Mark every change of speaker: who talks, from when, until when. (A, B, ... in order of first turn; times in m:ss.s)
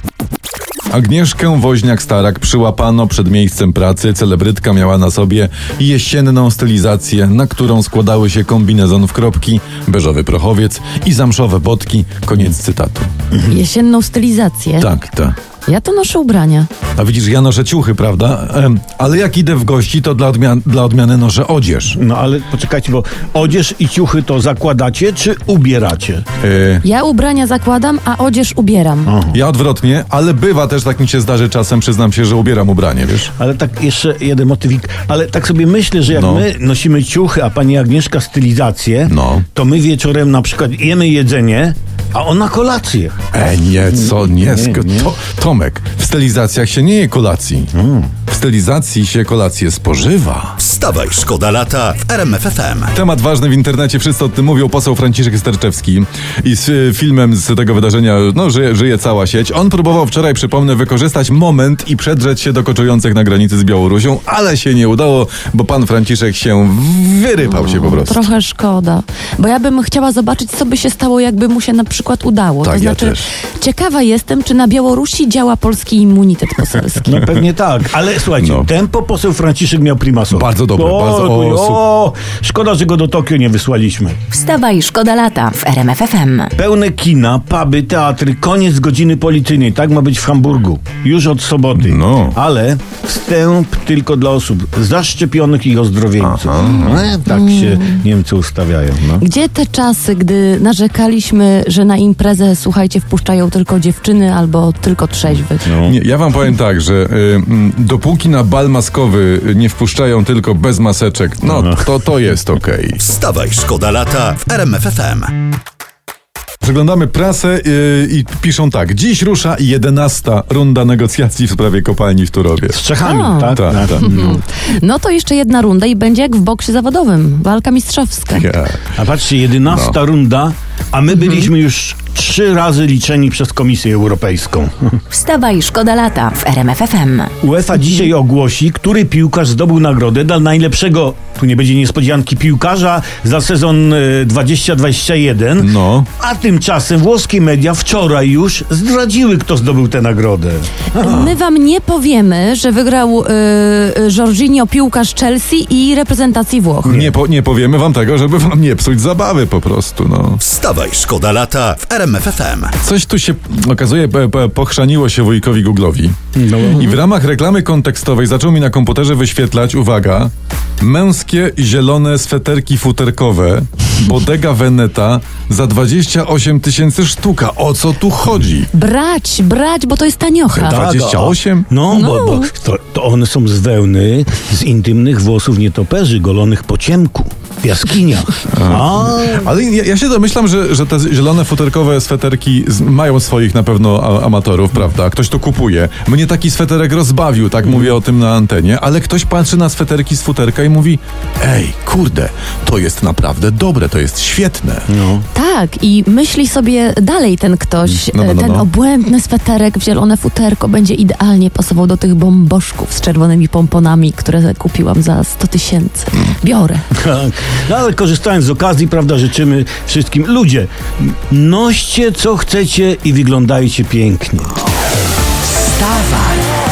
0:00.9-0:13.1 A
0:13.5-0:14.9 B
0:14.8-0:15.3 A
0:15.7-0:16.7 B
0:17.0-0:22.0 A
0:21.9-0:26.2 C
0:26.4-0:26.8 A
0:26.8-0:29.2 B
0:29.1-0:29.4 C
0:29.3-0:33.3 A
0:33.4-0:43.2 C
0:36.1-0:36.5 A
0:39.1-0:39.4 A
0:43.3-0:47.7 A
0:44.4-0:45.1 C
0:47.7-0:48.1 C
0:48.3-0:50.6 A
0:50.6-0:52.9 D
0:52.9-1:08.3 A
1:07.5-1:17.2 B
1:12.6-1:13.2 A
1:17.1-1:24.2 C
1:18.4-1:18.7 A
1:20.3-1:21.8 A
1:24.3-1:26.5 E
1:26.6-1:39.2 C
1:31.8-1:32.4 A
1:36.2-1:37.1 A
1:36.6-1:38.0 B
1:39.2-1:45.7 B
1:45.6-1:46.0 C
1:45.8-1:53.0 A
1:51.5-1:51.8 C
1:53.0-1:55.3 D
1:56.6-2:02.8 A
2:02.7-2:04.4 C
2:03.0-2:08.5 B
2:03.5-2:04.1 A
2:08.3-2:08.9 A
2:09.0-2:15.0 C
2:09.7-2:10.0 A
2:15.1-2:17.3 E
2:17.4-2:31.4 C
2:25.6-2:26.1 A
2:31.0-2:37.0 B
2:36.8-2:40.4 A
2:40.4-2:42.7 D
2:42.8-2:46.2 A
2:46.4-2:47.0 C
2:46.7-2:58.7 A
2:58.7-3:00.8 B
3:00.5-3:01.7 A
3:00.6-3:09.5 C
3:01.9-3:02.5 B
3:08.5-3:24.9 A
3:24.9-3:25.2 C
3:25.3-3:36.8 B
3:27.9-3:28.7 A
3:37.0-3:44.5 C
3:45.8-3:46.4 B